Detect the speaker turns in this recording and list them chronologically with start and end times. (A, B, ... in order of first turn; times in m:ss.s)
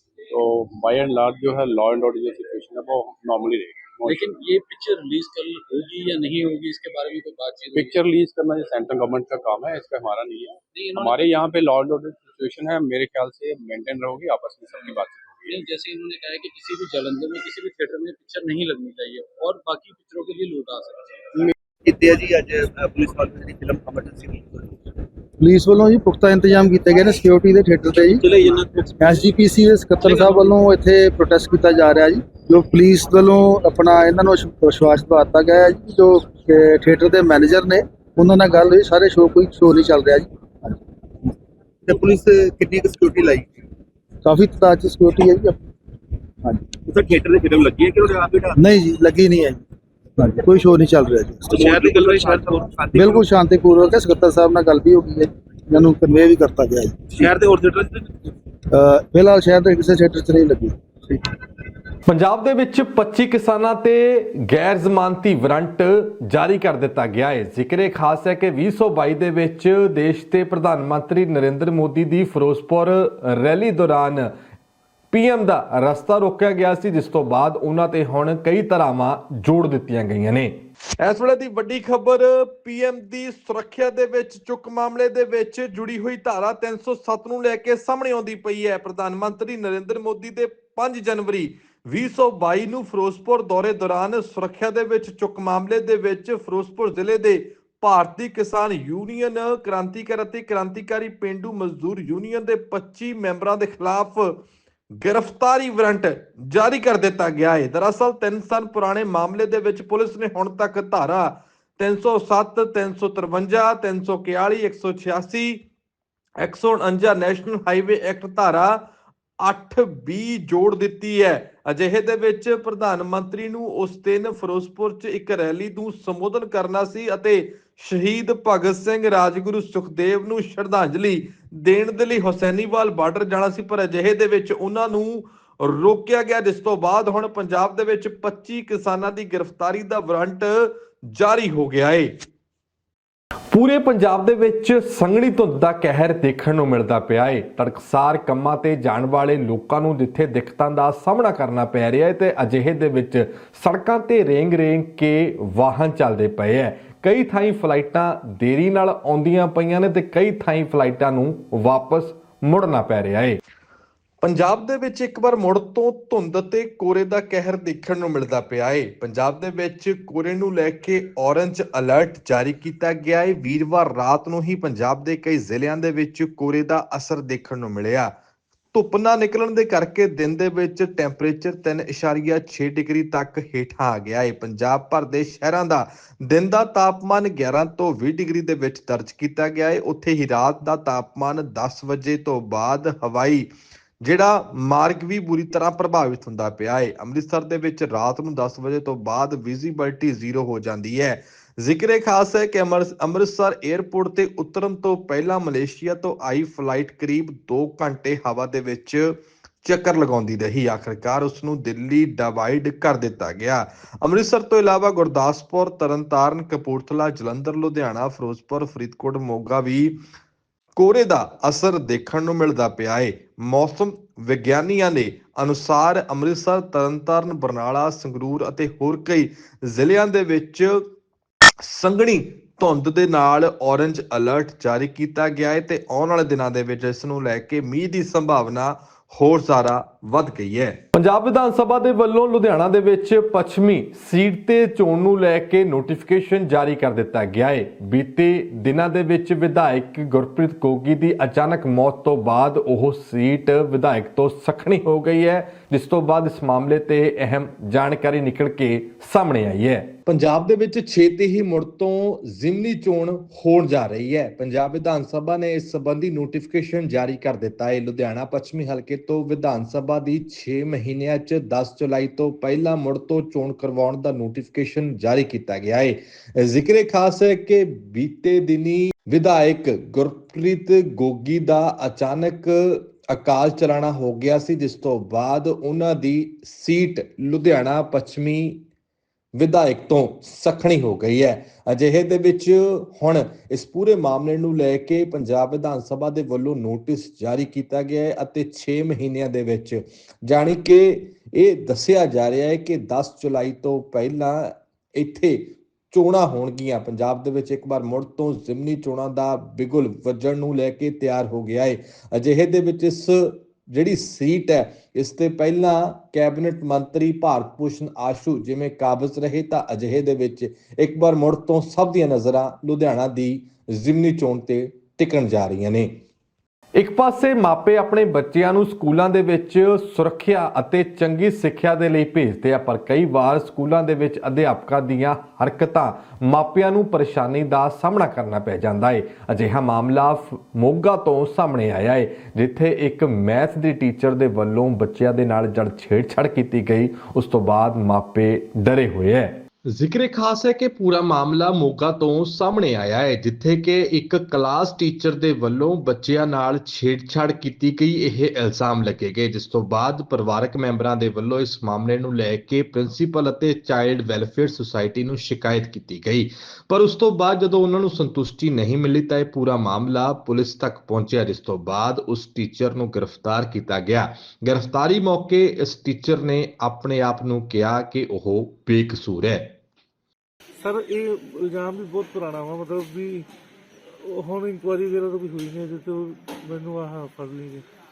0:00.4-0:03.9 A
0:04.0-0:08.1 B
0:08.3-0:10.4 A
0:10.7-0:11.5 B
0:11.6-0:15.2 A
0:15.5-0:21.3 B
0:22.0-0:24.4 C
0:22.5-0:24.0 D
0:25.4-0:28.2 A
0:25.5-0:28.2 D
0:28.2-0:28.9 C
0:29.0-0:40.2 D
0:29.0-0:30.7 A
0:32.4-0:33.0 A
0:35.8-0:36.3 A
0:38.3-0:38.9 A
0:41.9-0:43.4 D
0:44.3-0:45.4 D
0:44.3-0:45.2 A
0:46.9-0:48.5 C
0:48.6-0:49.5 D
0:48.6-0:49.4 A
0:50.4-0:52.1 D
0:50.4-0:51.6 A
0:51.5-0:53.3 C
0:52.9-0:57.3 A
0:53.0-0:55.1 D
0:55.8-0:57.2 D
0:57.2-0:58.1 C
0:59.1-1:01.2 A
0:59.7-1:00.1 D
1:02.1-1:14.3 E
1:15.1-1:44.4 E
1:45.0-1:55.6 E
1:56.4-1:58.8 E
1:59.4-2:22.1 E
2:23.5-2:43.4 E
2:44.2-2:58.1 E
2:58.7-3:13.5 E
3:14.0-3:40.0 E
3:40.8-3:50.9 E
3:51.6-4:48.6 E
4:49.4-5:26.0 E
5:26.8-6:19.6 E
6:20.6-6:23.2 F
6:24.1-6:27.6 F